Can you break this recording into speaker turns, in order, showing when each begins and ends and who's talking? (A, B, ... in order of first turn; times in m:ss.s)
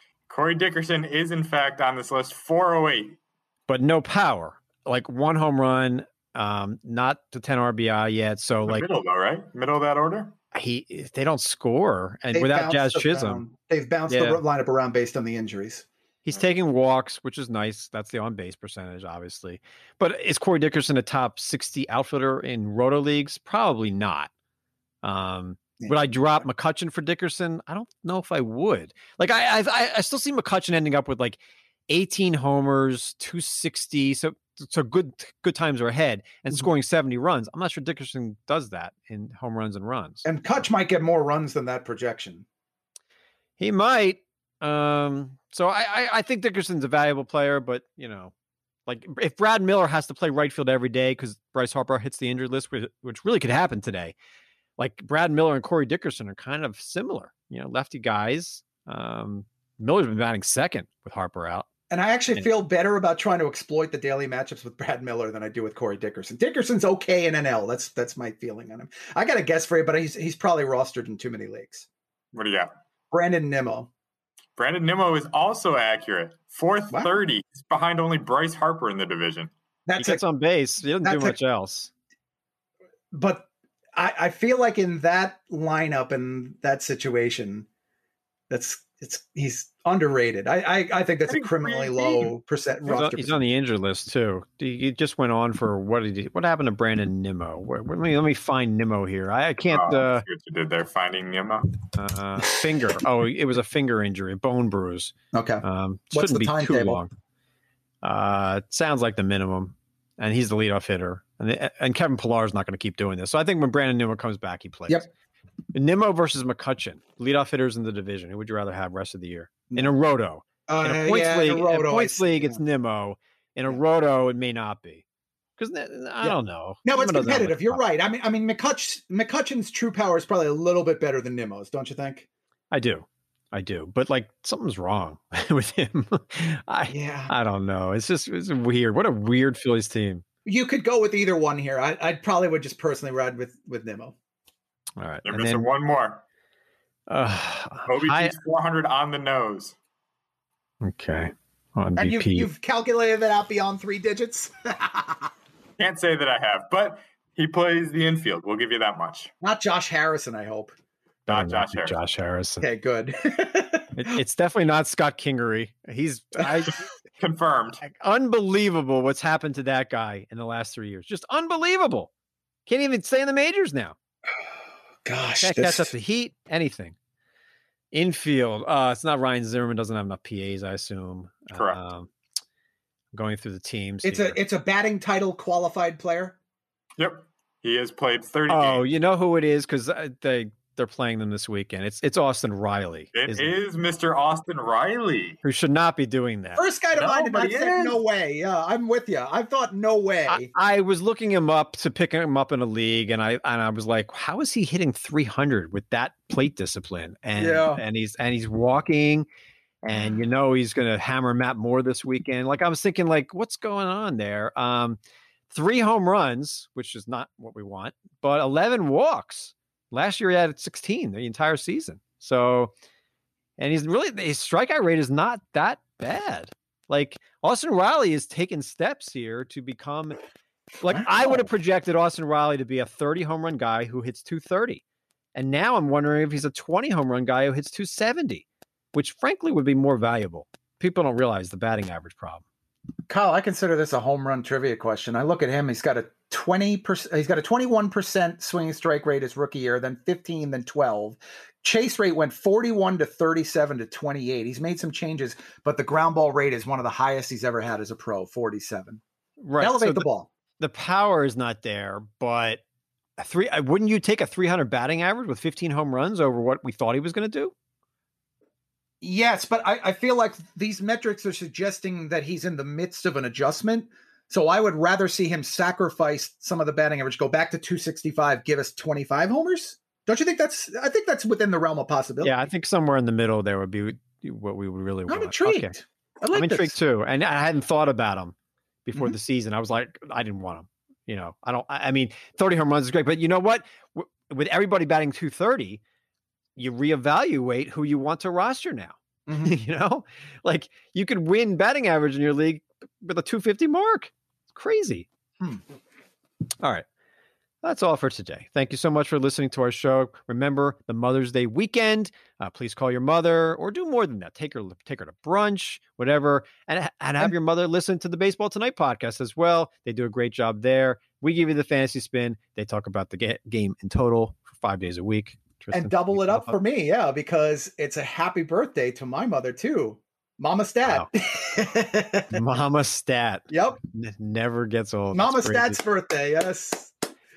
0:00.3-0:03.2 A
0:03.7-0:08.8 B
0:08.6-0:10.4 A
0:10.5-0:13.4 B
0:12.3-0:15.9 C
0:14.1-0:14.4 B
0:16.2-0:24.3 B
0:25.0-0:40.2 B
0:40.2-0:42.4 C
0:43.6-0:48.3 B
0:48.9-0:54.2 B
0:54.8-1:01.7 B
1:01.9-1:11.9 C
1:12.3-1:12.7 A
1:13.1-1:13.9 C
1:14.6-1:19.5 A
1:19.9-1:20.2 C
1:20.0-1:21.9 B
1:21.0-1:21.4 C
1:23.1-1:27.7 C
1:28.5-1:33.4 C
1:31.3-1:32.3 A
1:32.9-1:40.2 B
1:39.7-1:41.8 A
1:42.0-1:47.1 B
1:45.3-1:47.0 C
1:48.0-1:55.1 B
1:55.7-2:05.0 B
2:00.7-2:02.6 C
2:05.6-2:07.8 B
2:06.2-2:12.3 C
2:12.7-2:20.2 B
2:16.9-2:17.3 C
2:20.4-2:24.2 C
2:25.0-2:25.7 B
2:25.3-2:26.2 A
2:27.1-2:28.3 B
2:27.9-2:29.8 A
2:30.8-2:32.5 B
2:32.0-2:35.3 C
2:35.8-2:39.3 A
2:39.4-2:40.7 C
2:41.3-2:42.0 A
2:41.3-2:42.7 B
2:42.6-2:44.0 C
2:44.0-2:46.8 B
2:47.2-2:47.8 A
2:47.8-2:52.1 B
2:52.7-2:54.0 B
2:55.0-2:55.9 C
2:55.4-2:57.0 B
2:57.9-3:02.1 B
3:03.1-3:04.4 B
3:04.0-3:06.4 C
3:07.0-3:08.8 A
3:08.5-3:13.5 B
3:13.2-3:15.4 A
3:15.4-3:16.6 B
3:16.6-3:20.5 C
3:16.9-3:18.0 A
3:20.3-3:29.3 B
3:27.4-3:27.8 C
3:29.8-3:35.0 B
3:35.5-3:42.7 B
3:43.6-3:50.2 B
3:50.8-3:54.8 B
3:51.0-3:51.4 C
3:55.4-4:02.4 B
4:03.1-4:19.0 C
4:19.4-4:20.1 B
4:19.6-4:20.3 C
4:20.6-4:22.6 B
4:23.2-4:27.5 B
4:29.0-4:42.4 C
4:42.2-4:45.8 B
4:45.1-4:46.8 C
4:46.3-4:48.3 B
4:48.9-4:55.8 B
4:56.6-5:05.1 B
4:59.3-4:59.5 C
5:06.6-5:06.9 B
5:07.6-5:26.6 B
5:25.7-5:32.4 C
5:32.3-5:35.8 B
5:33.5-5:33.8 C
5:35.1-5:36.9 C